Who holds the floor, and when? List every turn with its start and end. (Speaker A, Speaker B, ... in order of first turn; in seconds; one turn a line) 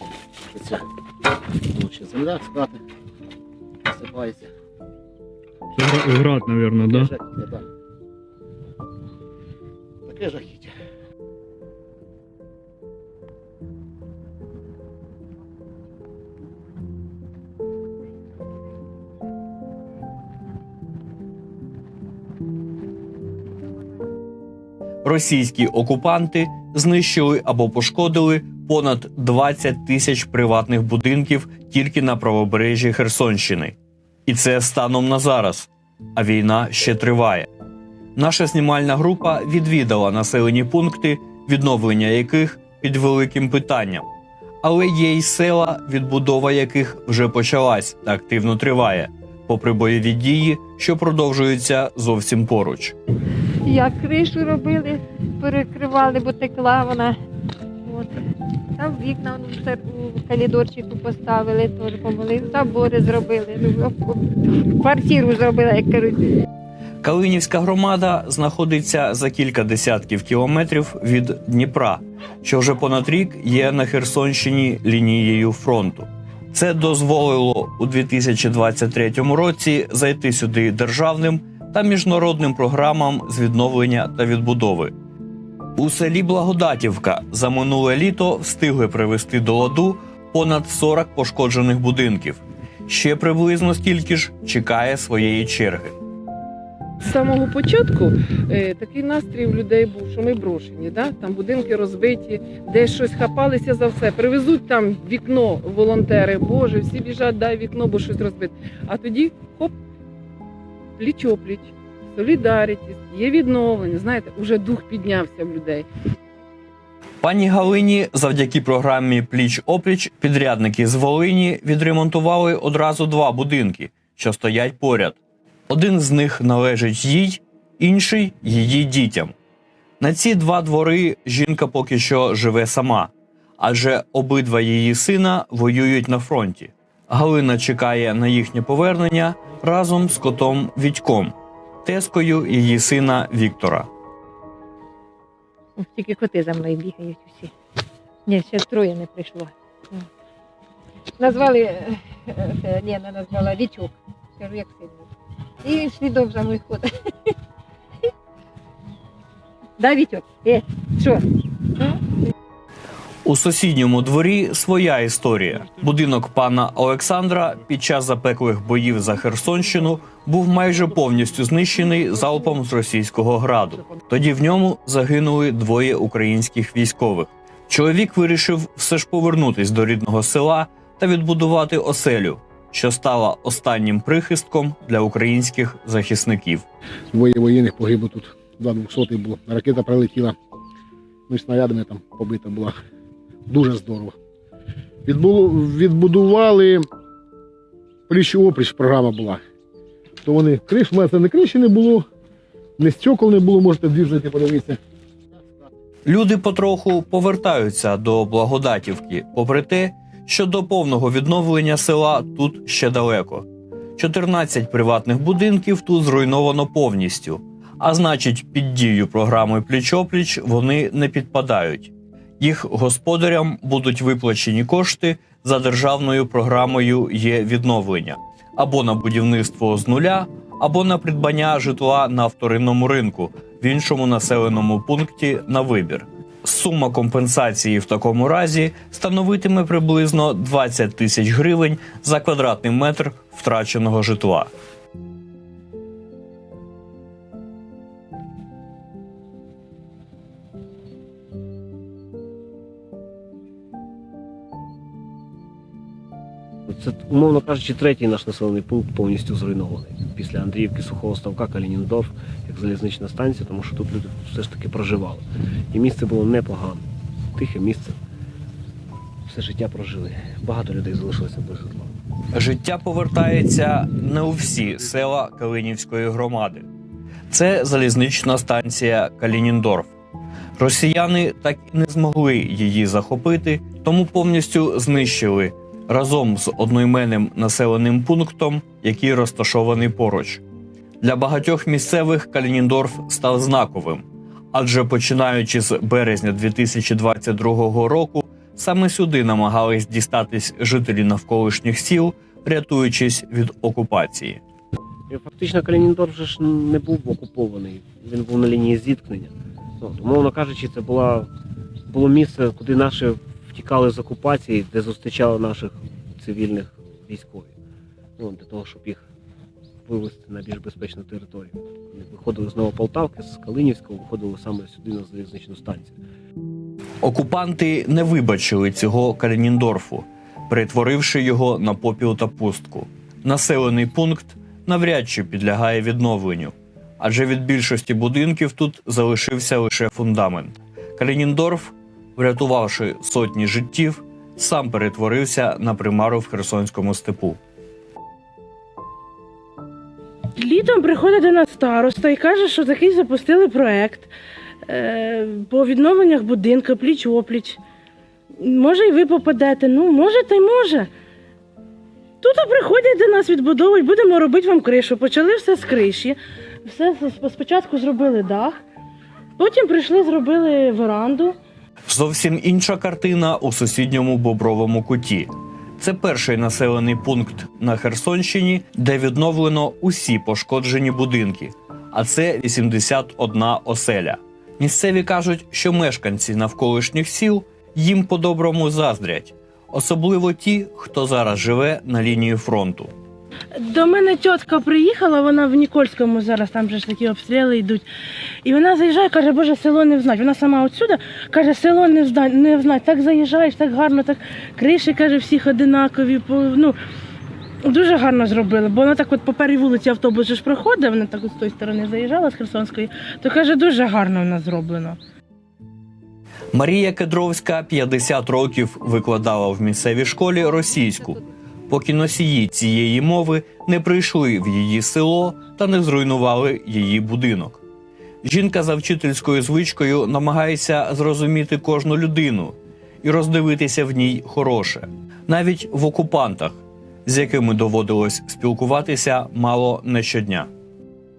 Speaker A: 0.5-0.8
Speaker A: 1.7-2.8
Speaker A: 3.9-4.5
Speaker B: 5.7-7.1
Speaker A: 6.9-7.6
Speaker A: 10.1-10.7
Speaker B: 25.0-33.8
Speaker B: 34.3-37.5
Speaker B: 38.1-44.0
Speaker B: 44.6-52.9
Speaker C: 53.6-57.2
Speaker C: 57.8-58.2
Speaker C: 58.8-66.4
Speaker B: 67.0-84.9
Speaker B: 85.8-95.9
Speaker D: 97.0-109.7
Speaker D: 111.0-115.9
Speaker B: 117.2-129.3
Speaker B: 130.0-141.3
Speaker B: 141.8-143.9
Speaker C: 145.8-147.5
Speaker C: 148.2-150.1
Speaker C: 151.2-155.1
Speaker C: 155.6-157.3
Speaker C: 159.8-162.2
Speaker B: 163.2-186.7
Speaker A: 187.1-190.3
Speaker A: 191.3-192.8
Speaker A: 193.5-194.2
Speaker A: 195.1-196.9
Speaker A: 198.1-199.4
Speaker A: 200.2-202.0
Speaker A: 202.8-204.8
Speaker B: 206.1-213.4
Speaker B: 214.0-244.5
Speaker E: 256.7-266.8
Speaker E: 267.4-268.0
Speaker E: 269.3-271.9
Speaker B: 272.3-276.6
Speaker B: 277.3-279.9
Speaker B: 280.6-290.4
Speaker B: 291.0-304.4
Speaker E: 305.1-311.3
Speaker E: 311.9-317.5
Speaker E: 318.2-319.0
Speaker E: 319.9-326.0
Speaker B: 327.0-347.4
Speaker F: 350.4-354.1
Speaker F: 354.6-357.6
Speaker F: 358.4-360.9
Speaker F: 362.2-368.6
Speaker F: 369.4-371.3
Speaker B: 371.9-392.9
Speaker F: 393.6-397.9
Speaker F: 398.4-406.8
Speaker F: 407.6-415.0
Speaker B: 416.5-427.6
Speaker B: 428.2-440.5